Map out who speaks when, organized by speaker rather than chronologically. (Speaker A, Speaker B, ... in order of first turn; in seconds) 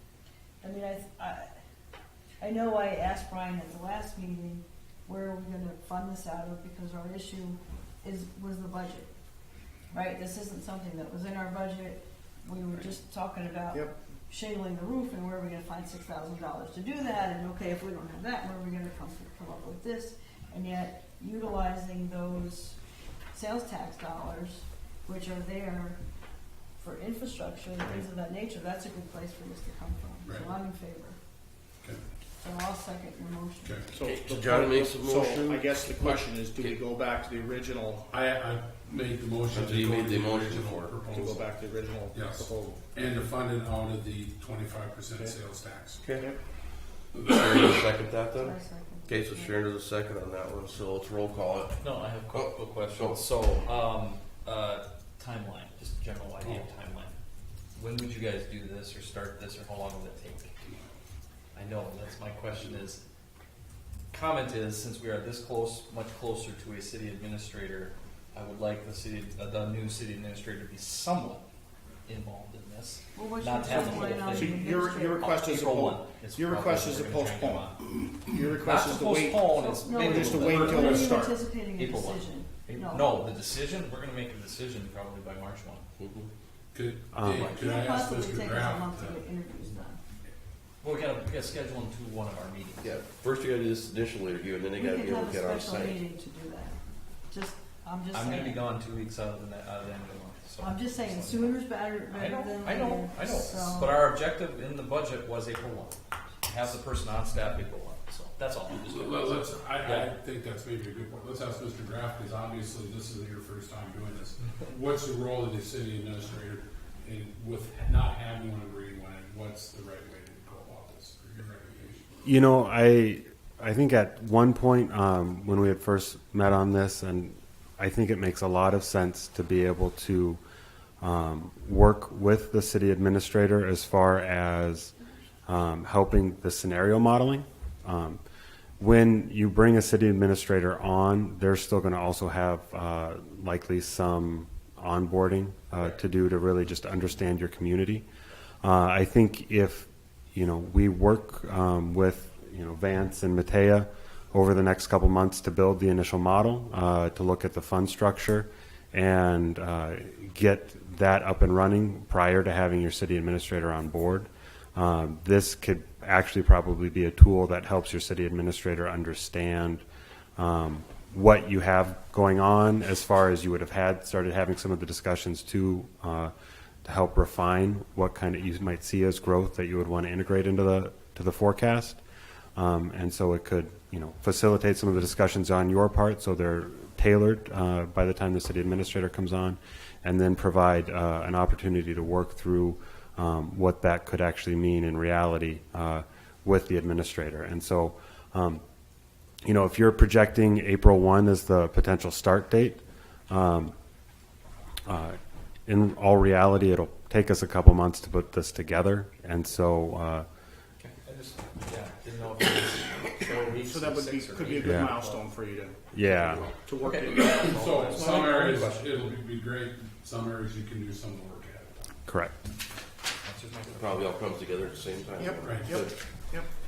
Speaker A: 0.6-1.5, 2.4-9.1, 9.9-22.8, 23.3-26.0, 26.8-31.2, 32.4-33.8, 48.4-49.6, 73.2-75.2, 79.6-83.3, 87.4-90.0, 94.8-96.8, 97.3-98.6, 100.6-104.0
Speaker B: 33.6-34.0, 38.1-41.5, 42.1-46.0, 47.1-47.8, 80.0-81.1, 86.7-89.2, 108.7-122.2, 217.1-222.0, 225.4-225.8
Speaker C: 33.9-38.1, 41.1-42.8, 73.7-77.7, 78.3-79.5, 80.0-81.4, 213.6-217.7, 225.2-226.5
Speaker D: 34.0-36.8, 39.5-41.0, 46.0-46.3, 47.2-53.2, 86.0-86.3, 92.8-96.0, 223.7-225.9
Speaker E: 51.8-57.2, 57.8-60.5, 61.5-63.0, 64.1-71.5, 72.1-77.8, 78.5-80.8, 81.8-85.9, 90.8-92.9, 98.1-101.6, 102.1-110.1, 210.8-215.3, 215.9-219.1, 223.2-224.2
Speaker F: 87.1-87.5, 122.2-130.4, 131.0-134.9, 135.5-138.2, 138.8-148.1, 148.6-169.8, 170.4-176.3, 176.8-182.0, 182.6-198.6, 199.4-203.7, 204.9-210.3, 214.6-214.9, 215.9-216.4, 222.1-222.4